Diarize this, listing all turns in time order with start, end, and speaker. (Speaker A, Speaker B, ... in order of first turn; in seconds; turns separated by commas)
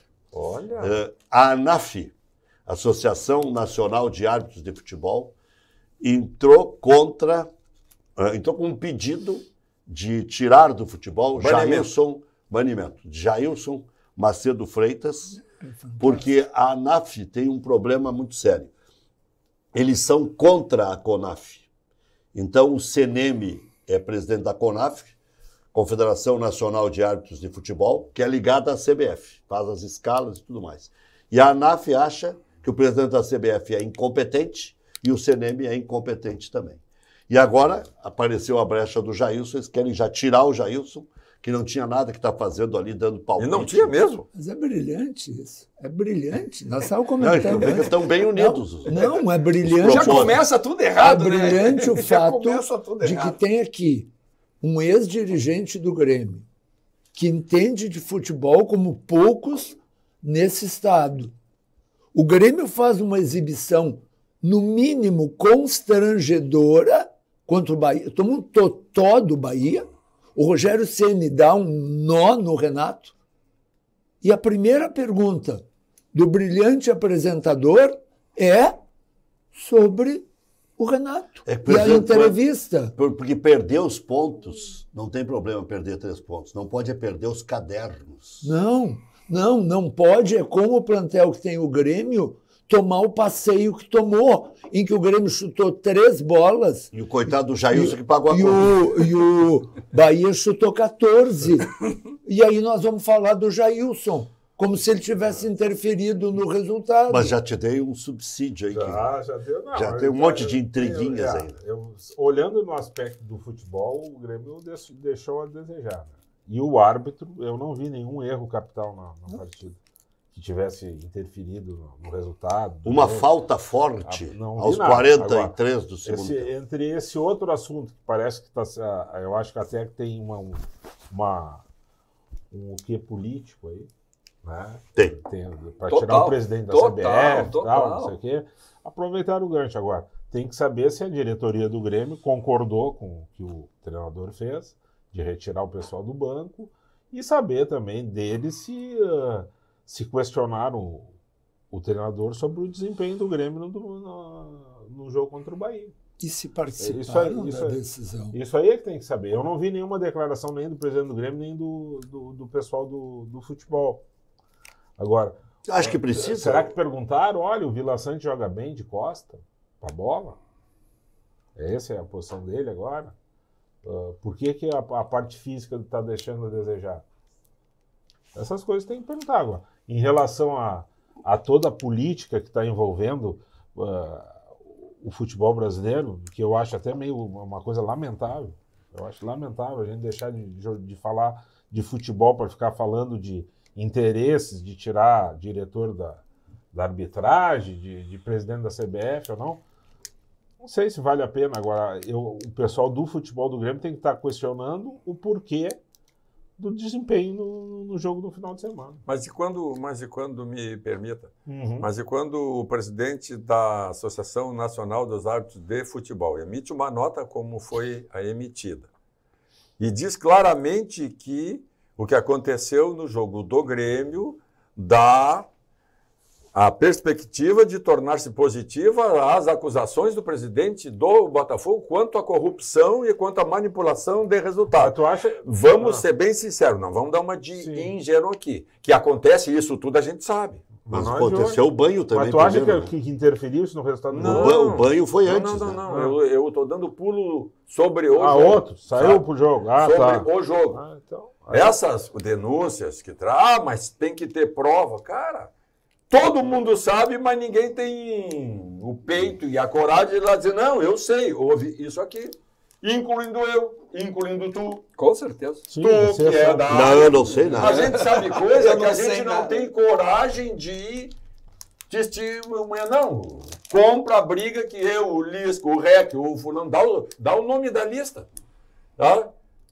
Speaker A: 0.3-1.0, Speaker B: 0.8-2.1, Speaker B: 2.6-5.3, Speaker B: 6.0-7.5, Speaker B: 8.2-15.4, Speaker C: 11.3-11.9, Speaker D: 15.3-16.2, Speaker B: 16.0-18.7, Speaker B: 19.7-21.7, Speaker B: 22.3-25.1, Speaker B: 25.7-44.0, Speaker C: 43.4-44.3, Speaker D: 44.3-50.4, Speaker B: 47.2-49.0, Speaker B: 49.6-50.4, Speaker E: 49.8-53.4, Speaker D: 51.0-54.1, Speaker D: 54.6-56.5, Speaker D: 57.1-61.3, Speaker D: 62.1-73.1, Speaker D: 74.2-78.8, Speaker D: 79.5-80.2, Speaker D: 80.8-82.9, Speaker B: 81.5-88.5, Speaker D: 88.4-96.9, Speaker B: 96.9-98.8, Speaker D: 97.7-107.3, Speaker B: 107.1-109.0, Speaker A: 108.7-119.8, Speaker B: 109.7-111.5, Speaker A: 120.3-123.3, Speaker B: 122.8-126.5, Speaker A: 124.0-131.6, Speaker A: 132.5-133.9, Speaker A: 134.4-151.1, Speaker E: 135.8-138.2, Speaker A: 151.7-155.9, Speaker D: 156.2-158.4, Speaker A: 156.8-164.0, Speaker A: 165.0-170.4, Speaker B: 165.7-166.7, Speaker A: 171.6-173.1, Speaker A: 173.8-177.0, Speaker A: 178.3-199.6, Speaker A: 200.6-205.8, Speaker A: 206.6-209.0, Speaker C: 209.1-218.9, Speaker A: 211.5-211.9, Speaker C: 219.8-225.5, Speaker C: 226.5-240.7, Speaker A: 234.7-236.0, Speaker A: 237.6-237.9, Speaker A: 240.8-244.6, Speaker B: 240.9-242.9, Speaker C: 244.1-249.2, Speaker B: 244.2-245.8, Speaker A: 245.9-246.1, Speaker A: 248.1-251.8, Speaker C: 249.8-250.8, Speaker C: 251.5-255.5, Speaker C: 256.1-264.9, Speaker E: 264.9-265.6, Speaker A: 265.6-267.0, Speaker C: 265.8-271.1, Speaker B: 266.7-268.0, Speaker E: 267.5-269.7, Speaker C: 271.9-278.3, Speaker C: 279.0-279.3